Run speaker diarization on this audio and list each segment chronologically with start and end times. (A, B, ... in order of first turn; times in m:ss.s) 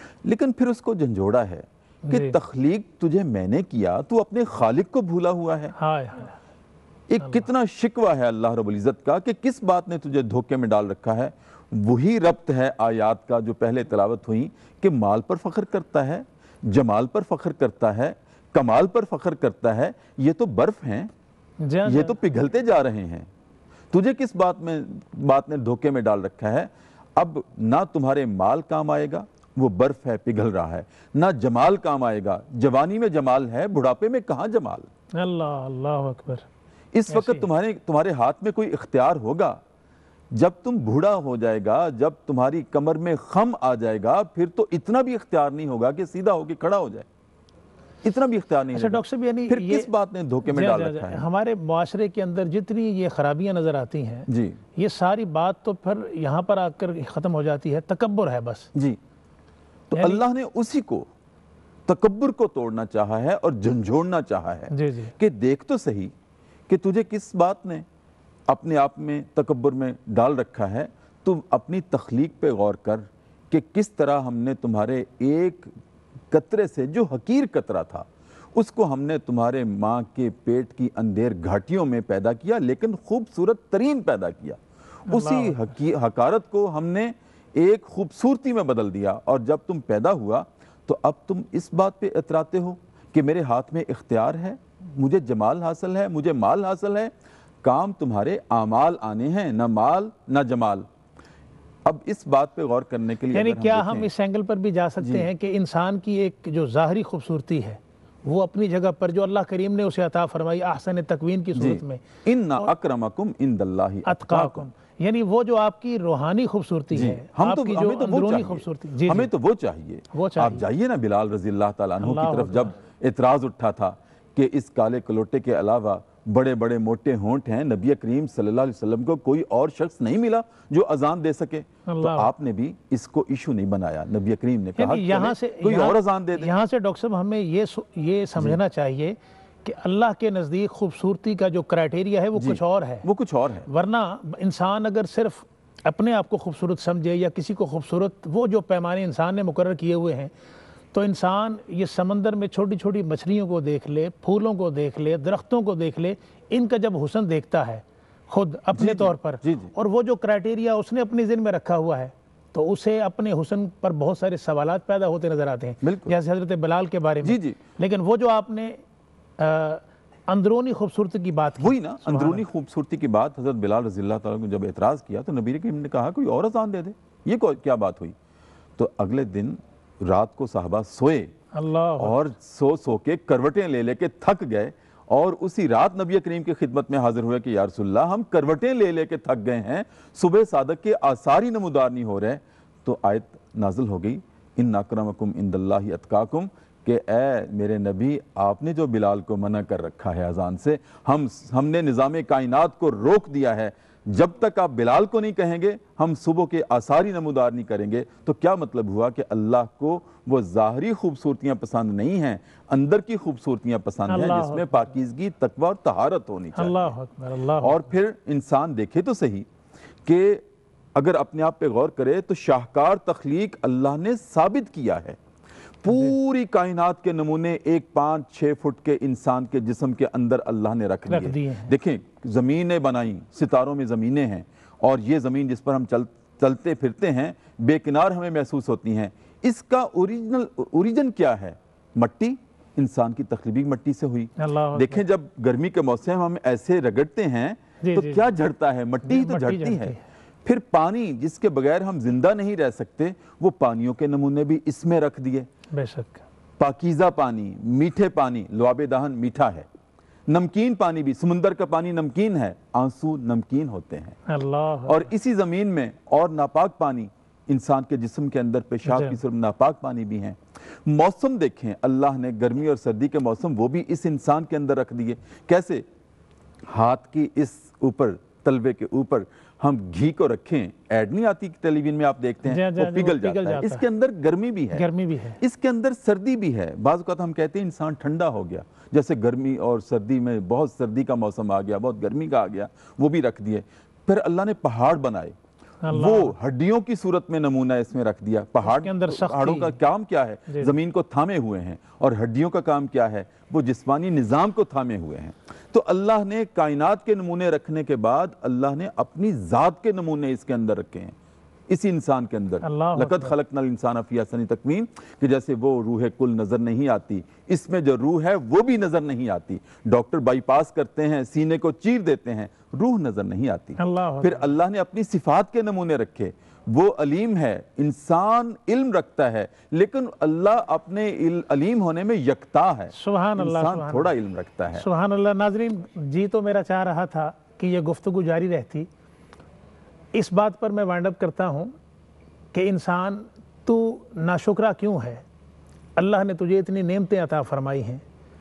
0:00.2-0:05.7 A
0:02.1-0:02.4 B
0:05.8-0:06.4 B
0:07.1-0:21.1 A
0:21.6-0:22.2 B
0:21.9-0:23.3 A
0:23.9-0:34.9 A
0:35.1-0:36.5 B
0:36.9-0:39.6 A
0:37.1-0:37.5 B
0:40.3-0:47.1 A
0:48.0-0:51.2 A
0:48.7-0:49.9 B
0:50.4-0:58.7 B
0:54.3-0:54.6 A
0:58.7-0:59.0 A
0:59.9-1:01.1 A
0:59.9-1:00.2 B
1:01.9-1:06.1 A
1:04.7-1:05.1 B
1:06.7-1:07.8 A
1:08.5-1:15.7 A
1:16.3-1:40.9 A
1:25.1-1:25.6 B
1:41.8-1:44.1 A
1:43.3-1:52.0 B
1:45.0-1:45.3 A
1:51.6-1:54.6 A
1:54.0-1:59.3 B
1:56.9-2:16.5 A
2:00.1-2:00.6 B
2:02.0-2:02.7 B
2:11.9-2:12.3 B
2:14.8-2:23.1 B
2:22.4-2:23.7 A
2:23.7-2:30.3 B
2:30.9-2:48.8 B
2:38.8-2:39.7 A
2:45.8-2:46.1 A
2:47.2-2:47.6 A
2:49.4-2:52.4 B
2:51.6-2:58.2 A
2:58.8-3:01.3 A
3:01.5-3:02.3 B
3:02.0-3:36.9 A
3:34.1-3:34.9 B
3:36.6-3:37.9 B
3:37.6-3:39.5 A
3:40.0-3:45.2 A
3:45.8-4:15.5 A
3:51.1-3:51.8 B
4:04.4-4:05.0 B
4:07.8-4:08.3 B
4:09.0-4:10.0 B
4:15.7-4:16.2 B
4:16.6-4:19.7 A
4:20.3-4:24.2 A
4:24.3-4:25.1 B
4:24.9-4:35.9 A
4:28.9-4:29.2 B
4:36.7-4:44.9 A
4:42.4-4:43.8 B
4:44.7-4:45.4 B
4:45.4-4:55.4 A
4:55.8-4:56.4 B
4:55.9-5:11.2 A
4:58.6-4:59.8 B
5:00.5-5:00.7 B
5:11.7-5:34.8 A
5:12.6-5:13.4 B
5:23.8-5:24.5 B
5:32.9-5:34.1 B
5:34.7-5:38.9 B
5:40.1-5:41.7 B
5:42.5-5:45.2 B
5:46.0-5:48.0 B